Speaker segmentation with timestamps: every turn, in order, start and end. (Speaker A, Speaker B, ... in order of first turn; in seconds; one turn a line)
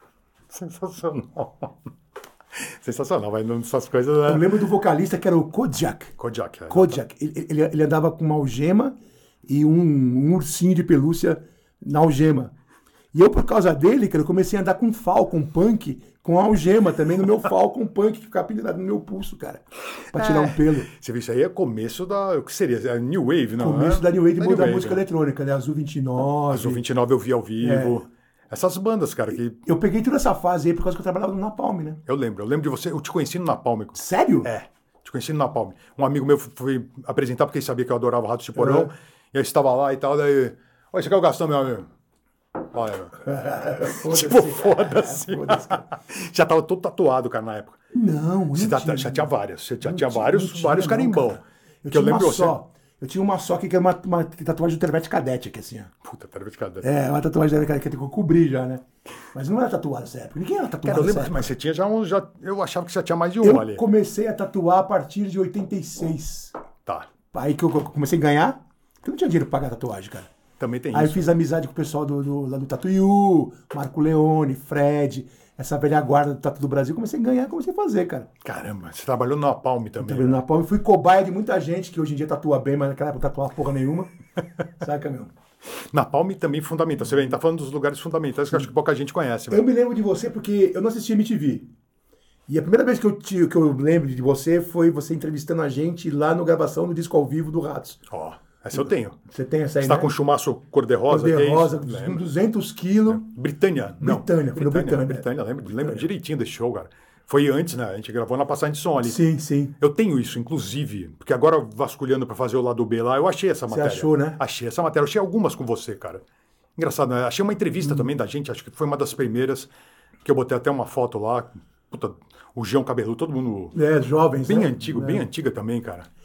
Speaker A: 0.5-1.8
Speaker A: 2.5-4.5
Speaker B: 4.2-6.2
Speaker A: 6.2-7.0
Speaker B: 6.7-12.5
Speaker B: 13.1-20.9
Speaker A: 20.1-25.0
Speaker B: 23.6-26.8
Speaker A: 26.5-29.6
Speaker B: 27.6-28.0
Speaker B: 29.6-32.0
Speaker A: 32.1-41.9
Speaker B: 34.0-34.5
Speaker B: 38.6-38.9
Speaker A: 42.7-43.3
Speaker B: 43.2-45.9
Speaker A: 43.8-47.8
Speaker B: 47.9-49.3
Speaker A: 48.5-52.6
Speaker B: 49.8-55.9
Speaker A: 56.0-56.9
Speaker B: 56.8-61.5
Speaker A: 60.8-63.9
Speaker B: 63.4-66.6
Speaker B: 67.3-70.3
Speaker A: 70.6-71.3
Speaker B: 70.9-78.3
Speaker A: 78.4-80.4
Speaker B: 80.0-84.1
Speaker B: 84.8-85.3
Speaker A: 85.9-89.7
Speaker B: 89.5-91.7
Speaker B: 92.5-98.0
Speaker A: 98.1-99.2
Speaker B: 98.8-100.1
Speaker A: 99.8-102.3
Speaker B: 101.1-103.3
Speaker A: 103.1-109.2
Speaker B: 104.0-105.2
Speaker B: 105.8-106.0
Speaker B: 109.0-109.7
Speaker A: 109.8-116.2
Speaker B: 113.7-114.4
Speaker A: 116.8-119.7
Speaker A: 120.2-123.8
Speaker B: 123.7-125.2
Speaker A: 124.5-126.1